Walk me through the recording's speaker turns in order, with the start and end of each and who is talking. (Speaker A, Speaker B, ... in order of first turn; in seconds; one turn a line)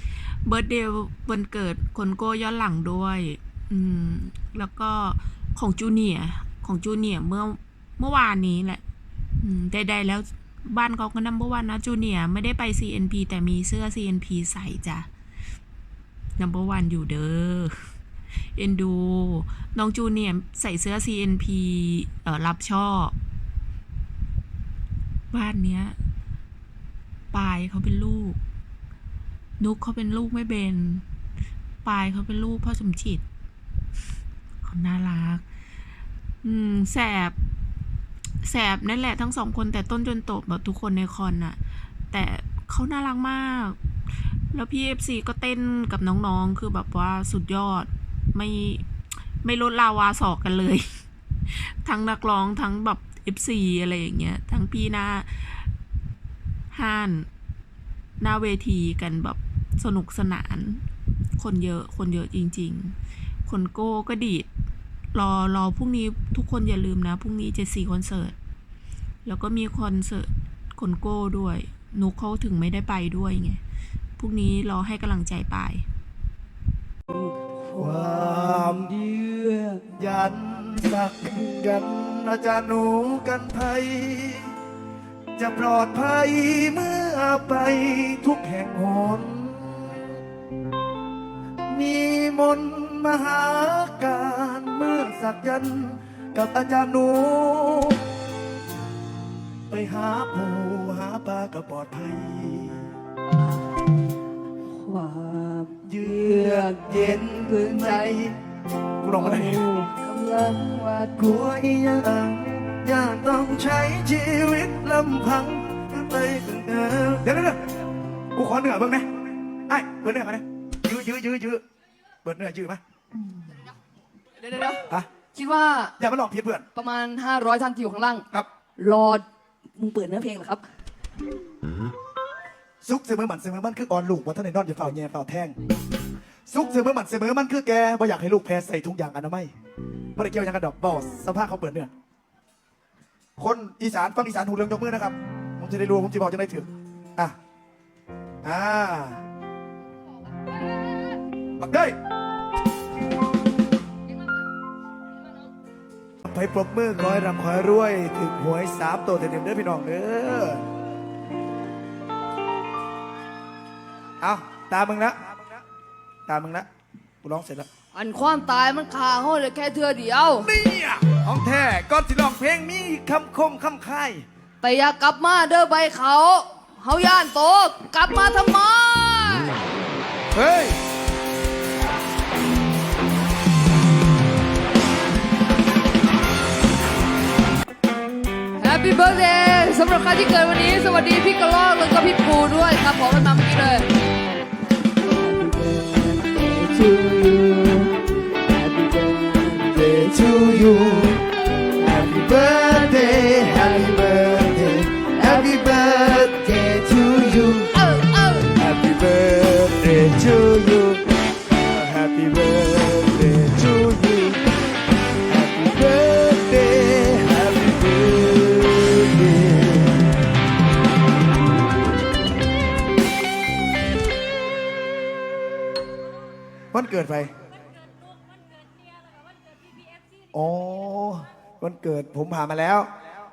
Speaker A: 0.4-8.8
Speaker A: 9.4-15.1
Speaker A: 16.4-17.7
Speaker A: 18.6-23.1
Speaker A: 25.3-25.9
Speaker A: 27.3-28.4
Speaker A: 29.6-31.0
Speaker A: 31.8-33.2
Speaker A: 34.6-35.4
Speaker A: 36.4-37.4
Speaker A: 38.4-41.6
Speaker A: 42.1-43.8
Speaker A: 44.5-48.9
Speaker A: 49.4-50.9
Speaker A: 51.5-55.7
Speaker A: 56.7-57.3
Speaker A: 58.2-60.9
Speaker A: 61.4-64.5
Speaker A: 65.1-68.3
Speaker A: 69.2-73.6
Speaker A: 74.2-75.8
Speaker B: 77.1-79.8
Speaker C: 77.8-79.0
Speaker C: 79.9-84.5
Speaker C: 85.4-90.1
Speaker C: 91.7-98.0
Speaker C: 99.7-102.9
Speaker B: 104.7-108.3
Speaker C: 105.8-108.3
Speaker C: 109.0-109.7
Speaker B: 109.2-111.3
Speaker C: 111.2-117.6
Speaker C: 118.3-119.0
Speaker C: 119.7-121.6
Speaker C: 122.2-122.8
Speaker B: 124.4-125.9
Speaker C: 126.0-126.6
Speaker B: 126.7-128.2
Speaker B: 128.8-129.2
Speaker B: 129.8-130.6
Speaker C: 132.8-135.6
Speaker C: 136.5-139.5
Speaker C: 140.1-141.9
Speaker C: 143.4-147.3
Speaker C: 148.4-149.2
Speaker C: 151.6-151.9
Speaker C: 156.2-160.6
Speaker C: 164.2-165.4
Speaker C: 166.3-166.7
Speaker C: 167.2-167.7
Speaker B: 167.9-170.5
Speaker C: 170.4-174.2
Speaker B: 174.6-179.6
Speaker C: 180.3-180.8
Speaker B: 188.6-193.9
Speaker B: 195.2-197.9
Speaker B: 198.5-200.3
Speaker C: 199.7-201.2
Speaker C: 201.8-207.7
Speaker B: 202.1-204.6
Speaker B: 205.1-206.1
Speaker B: 207.7-208.6
Speaker C: 208.5-214.4
Speaker C: 215.3-220.0
Speaker C: 226.7-227.3
Speaker C: 230.3-232.9